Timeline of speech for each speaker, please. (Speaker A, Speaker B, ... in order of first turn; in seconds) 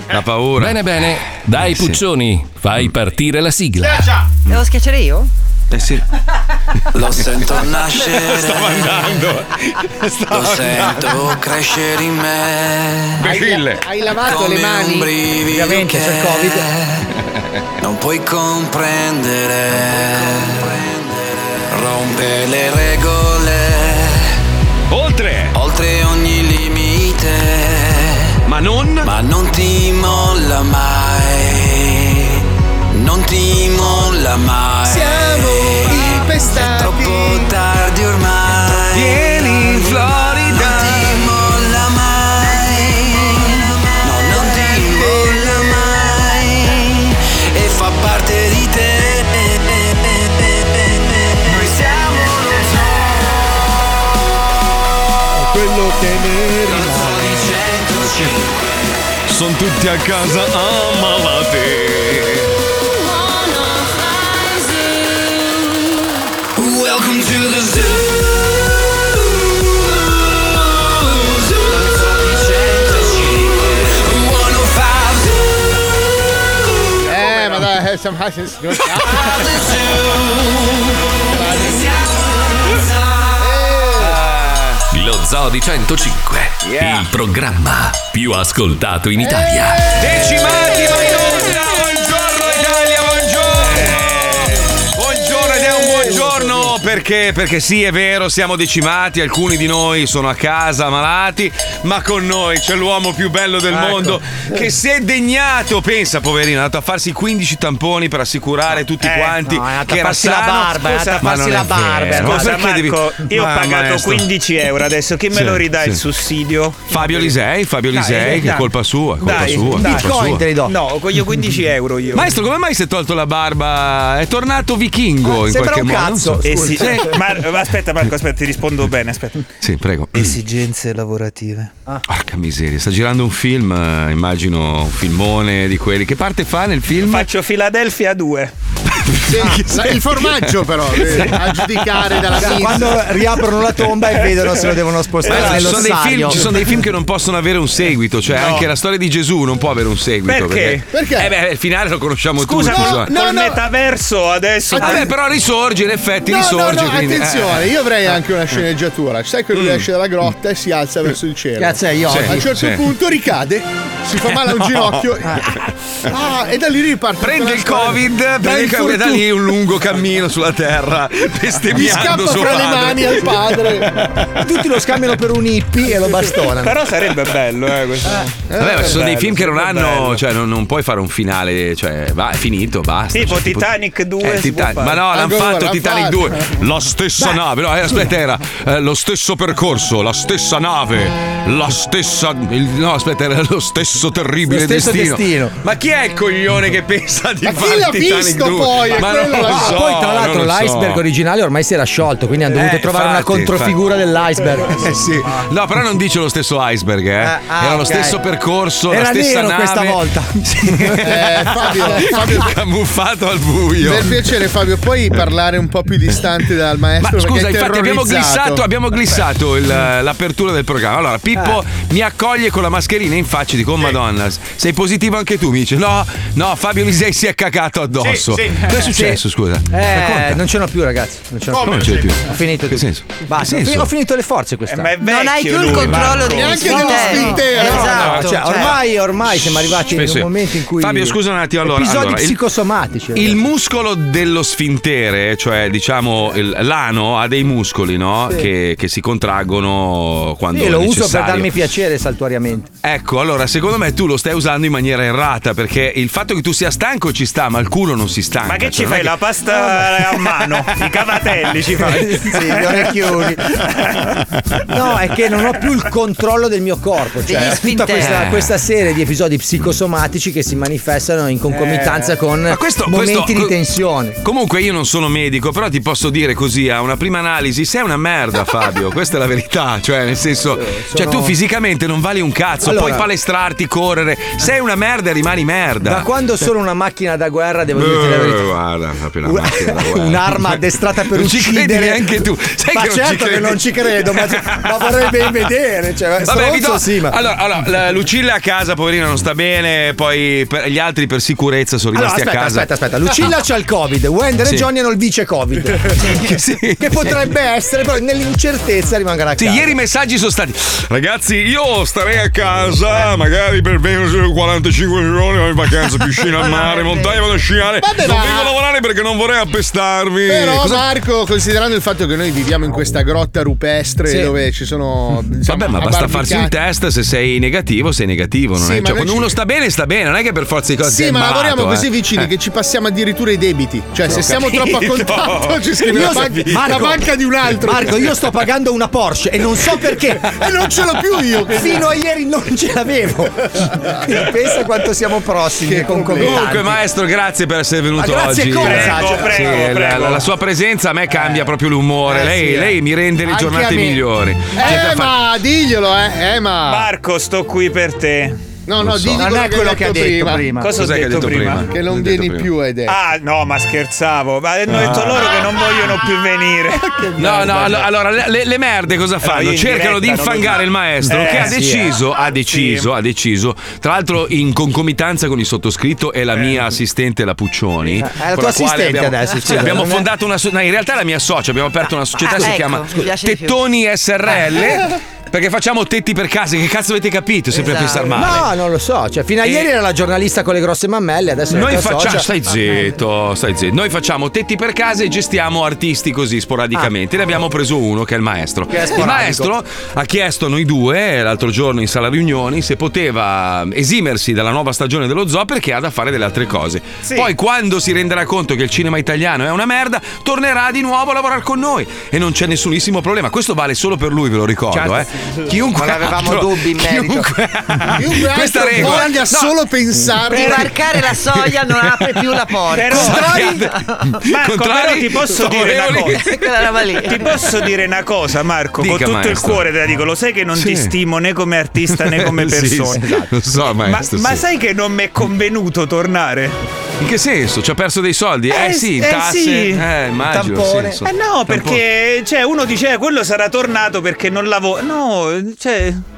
Speaker A: 0.1-0.8, 1.6-2.0, 5.7-6.0, 7.9-11.3, 13.2-13.8, 24.9-25.5, 28.5-29.1, 38.9-41.1, 59.3-62.5, 84.0-84.8, 86.6-87.1, 90.0-114.2, 115.3-116.0, 116.9-120.5, 122.1-127.1, 129.6-130.4, 132.1-137.3, 139.0-141.4, 145.2-153.1, 154.8-157.7, 159.5-159.9, 162.1-162.9, 164.2-165.1, 167.2-174.5, 178.6-201.0, 202.5-203.8, 204.7-214.2, 217.0-230.4, 231.6-233.9, 235.7-236.1, 237.7-238.8, 239.3-242.4, 243.1-251.5, 252.8-259.2, 267.9-268.5, 272.5-273.6, 274.2-286.1, 287.8-293.6, 294.2-294.7, 296.2-302.7, 306.0-307.2, 309.4-320.9, 325.5-332.3, 334.1-337.0, 346.2-355.2, 358.8-359.3, 360.8-362.5, 364.7-365.5, 367.2-388.5, 389.4-389.7, 391.5-419.2, 420.9-426.7, 428.8-429.7, 430.6-430.9, 431.9-434.4, 437.0-441.8
Speaker B: 0.6-4.1, 84.9-90.0
Speaker C: 4.5-5.3, 235.0-238.8, 267.3-268.3, 382.2-383.6, 387.6-388.2, 415.5-417.3, 420.2-423.9, 426.1-427.4
Speaker D: 6.9-9.1, 10.3-13.3, 14.2-17.0, 17.8-24.3, 25.5-28.3, 29.0-39.9, 40.5-53.4, 56.6-58.6, 66.5-68.7, 69.3-75.7, 79.3-80.8, 81.4-83.2
Speaker E: 13.3-15.1, 34.9-37.5, 44.4-45.7, 77.0-79.5, 81.4-81.7, 83.4-84.2, 139.3-142.9, 150.9-151.3, 152.7-153.6, 154.7-155.1, 156.2-165.5, 166.0-169.3, 171.7-173.9, 178.5-178.9, 185.1-186.6, 197.4-199.8, 211.0-212.6, 213.8-218.6, 236.2-238.2, 317.8-318.6, 320.3-326.5, 328.6-329.4, 330.8-338.0, 340.2-341.8, 345.6-346.5, 352.1-352.7, 353.3-354.0, 354.5-356.9, 358.7-360.5, 361.7-363.0, 366.8-367.9, 418.0-420.7
Speaker F: 15.5-16.6, 103.7-104.2, 109.4-112.6, 117.9-118.7, 119.3-120.8, 125.2-127.1, 142.3-146.5, 161.6-162.5, 174.4-176.8, 194.4-195.6, 199.3-205.0, 207.2-208.2, 208.9-211.1, 211.6-212.2, 228.7-235.0, 236.4-243.4, 250.5-252.7, 261.7-263.6, 264.7-274.2, 280.5-281.4, 282.6-283.1, 285.8-288.4, 289.2-292.2, 292.7-297.2, 301.9-306.2, 306.8-309.7, 324.1-324.3, 335.9-337.0, 337.6-340.3, 341.5-343.3, 343.9-346.8, 348.0-349.6, 359.1-360.8, 371.1-372.0, 377.9-380.1, 388.1-392.3, 398.7-399.5, 422.9-423.6, 432.9-433.3, 440.3-441.0
Speaker G: 93.6-94.5, 109.0-109.4, 110.9-111.3, 112.1-117.3, 118.1-118.5, 119.2-120.1, 120.7-122.3, 126.4-129.4, 130.2-131.7, 137.1-138.5, 145.3-145.7, 148.3-148.7, 150.3-150.9, 152.4-155.1, 176.5-178.3, 178.9-180.2, 183.1-185.0, 234.7-236.6, 258.5-263.0, 263.7-264.1, 271.5-272.1, 348.6-350.3, 356.7-358.4, 360.6-361.7, 362.9-366.8, 369.2-371.5, 372.5-372.9, 407.0-407.3, 422.7-423.2, 424.3-426.2, 427.0-433.0, 433.9-436.6, 438.5-439.8, 441.1-446.0